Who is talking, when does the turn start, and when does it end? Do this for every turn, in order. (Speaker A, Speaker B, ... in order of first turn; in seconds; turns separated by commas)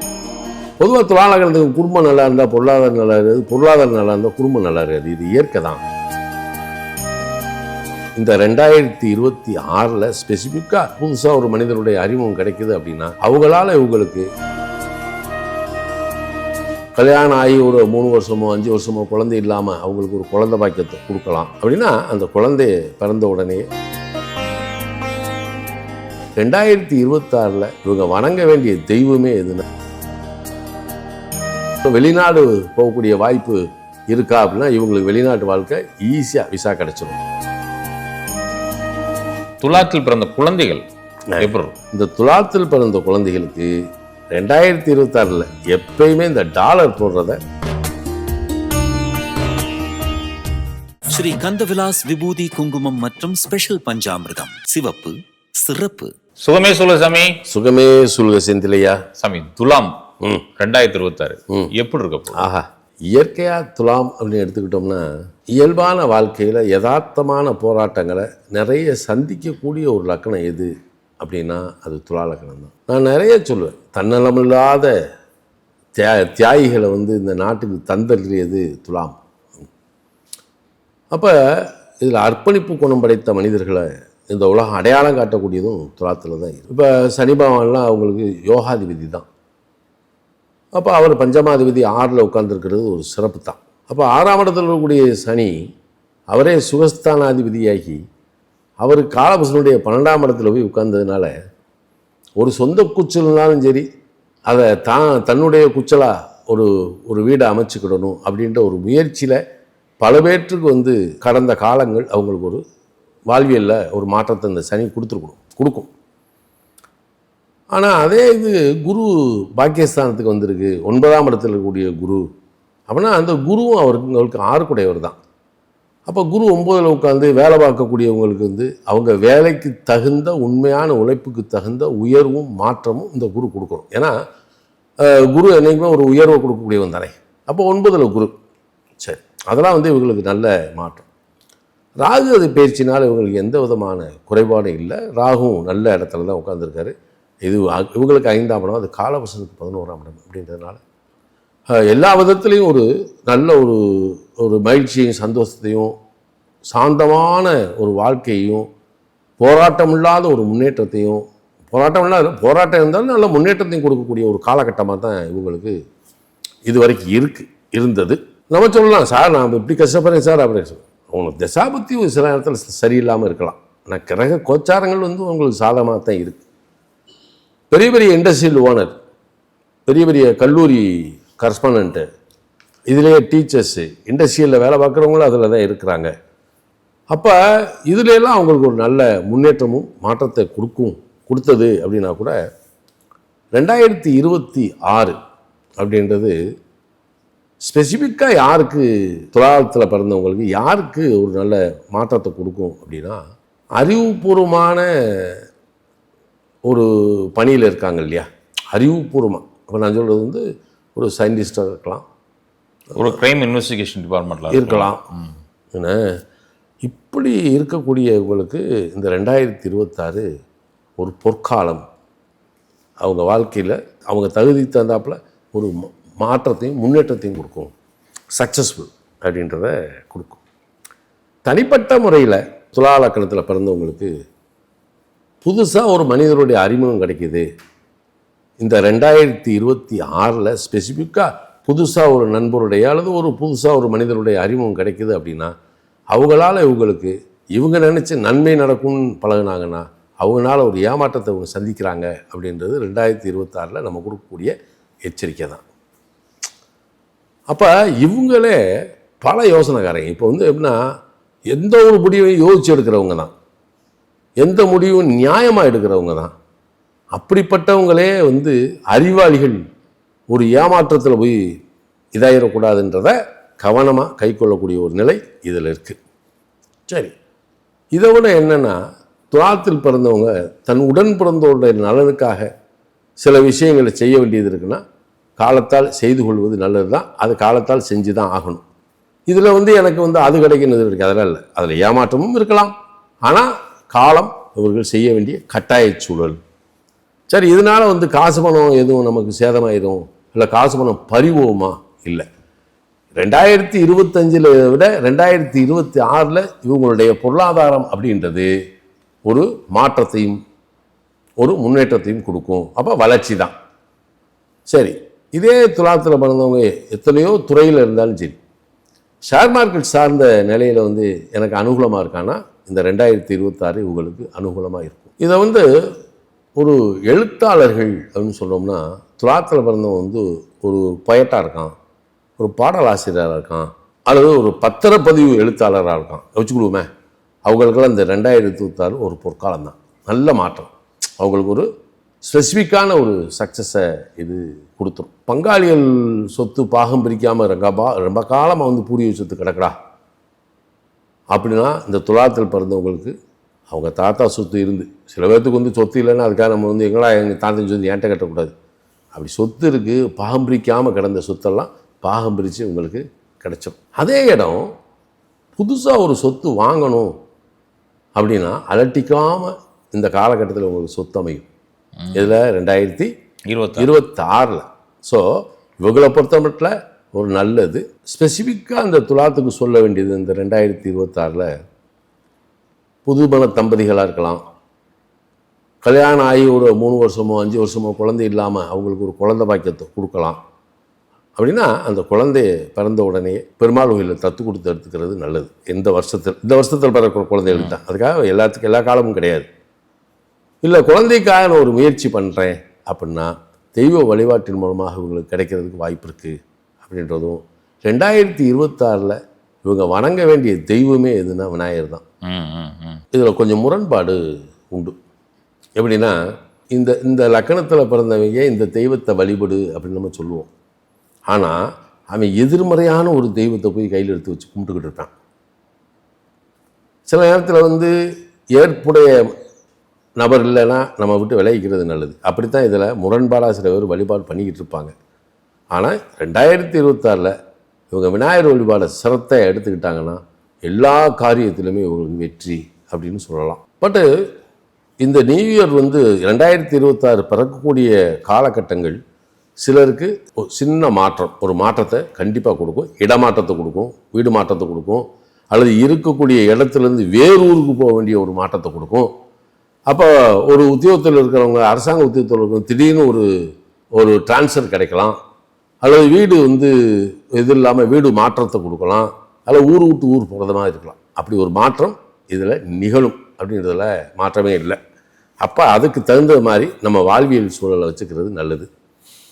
Speaker A: 0.8-5.8, Speaker A: 8.2-14.2, Speaker A: 16.9-23.6, Speaker A: 26.4-29.6, Speaker A: 31.8-37.2, Speaker B: 39.6-40.8, Speaker A: 41.3-43.7, Speaker B: 41.4-41.8, Speaker A: 44.3-47.4, Speaker C: 51.1-56.1, Speaker B: 56.4-57.3, Speaker A: 57.5-59.0, Speaker B: 59.2-59.9, Speaker B: 60.6-62.4, Speaker A: 62.3-74.9, Speaker A: 76.0-79.2, Speaker A: 81.1-89.2, Speaker A: 90.7-95.5, Speaker A: 96.3-98.0, Speaker A: 98.8-101.3, Speaker A: 102.4-103.8, Speaker A: 104.5-109.4, Speaker A: 110.0-112.6, Speaker A: 113.3-115.9, Speaker A: 117.7-122.2, Speaker A: 122.9-125.2, Speaker A: 126.1-134.1, Speaker A: 135.0-138.3, Speaker A: 139.0-141.1, Speaker A: 142.0-146.9, Speaker A: 147.4-150.8, Speaker A: 151.7-155.9, Speaker A: 156.7-158.7, Speaker A: 159.4-165.7, Speaker A: 166.7-176.4, Speaker A: 177.7-178.9, Speaker A: 179.9-182.0, Speaker A: 182.9-186.1, Speaker A: 187.1-192.3, Speaker A: 193.5-195.2, Speaker A: 195.8-196.3, Speaker A: 197.6-203.2, Speaker A: 203.8-205.4, Speaker A: 206.7-210.4, Speaker A: 210.9-212.0, Speaker B: 212.9-215.3, Speaker A: 214.5-215.0, Speaker A: 215.7-216.0, Speaker A: 216.8-220.2, Speaker A: 221.0-221.8, Speaker A: 223.0-227.7, Speaker A: 228.3-230.4, Speaker A: 231.4-234.1, Speaker A: 235.4-237.4, Speaker A: 238.6-245.5, Speaker A: 246.1-254.5, Speaker A: 255.1-255.6, Speaker A: 257.5-258.6, Speaker A: 259.2-260.8, Speaker A: 261.5-263.3, Speaker A: 264.4-266.3, Speaker A: 267.1-269.6, Speaker A: 270.3-271.4, Speaker A: 272.1-276.0, Speaker A: 276.9-277.1, Speaker A: 277.9-278.8, Speaker A: 279.3-282.5, Speaker A: 283.2-284.8, Speaker A: 285.4-288.6, Speaker A: 289.3-292.7, Speaker A: 293.2-296.4, Speaker A: 297.3-302.2, Speaker A: 303.2-308.5, Speaker A: 309.2-310.4, Speaker A: 311.4-313.5, Speaker A: 314.7-318.4, Speaker A: 319.3-325.6, Speaker A: 326.6-331.7, Speaker A: 332.4-336.9, Speaker A: 337.4-341.6, Speaker A: 342.2-349.7, Speaker A: 351.3-353.1, Speaker A: 353.7-358.5, Speaker A: 359.1-364.6, Speaker A: 365.6-367.1, Speaker A: 368.1-371.5, Speaker B: 372.0-372.3, Speaker A: 372.1-373.1, Speaker B: 373.5-373.9, Speaker A: 373.7-375.2, Speaker A: 375.8-381.5, Speaker A: 383.0-384.4, Speaker A: 385.8-390.4, Speaker A: 391.4-399.5, Speaker A: 400.6-406.3, Speaker A: 406.8-412.0, Speaker B: 412.2-413.0, Speaker A: 413.1-414.2, Speaker A: 415.8-416.2, Speaker A: 416.7-420.5, Speaker A: 421.3-421.6, Speaker A: 422.1-425.1, Speaker A: 427.1-427.9, Speaker A: 428.6-429.1, Speaker A: 430.2-434.9, Speaker A: 435.7-437.3, Speaker A: 437.9-444.1, Speaker A: 445.0-449.0, Speaker A: 449.6-459.1, Speaker A: 459.9-463.2, Speaker A: 463.9-465.2, Speaker A: 465.8-474.8, Speaker A: 475.4-478.7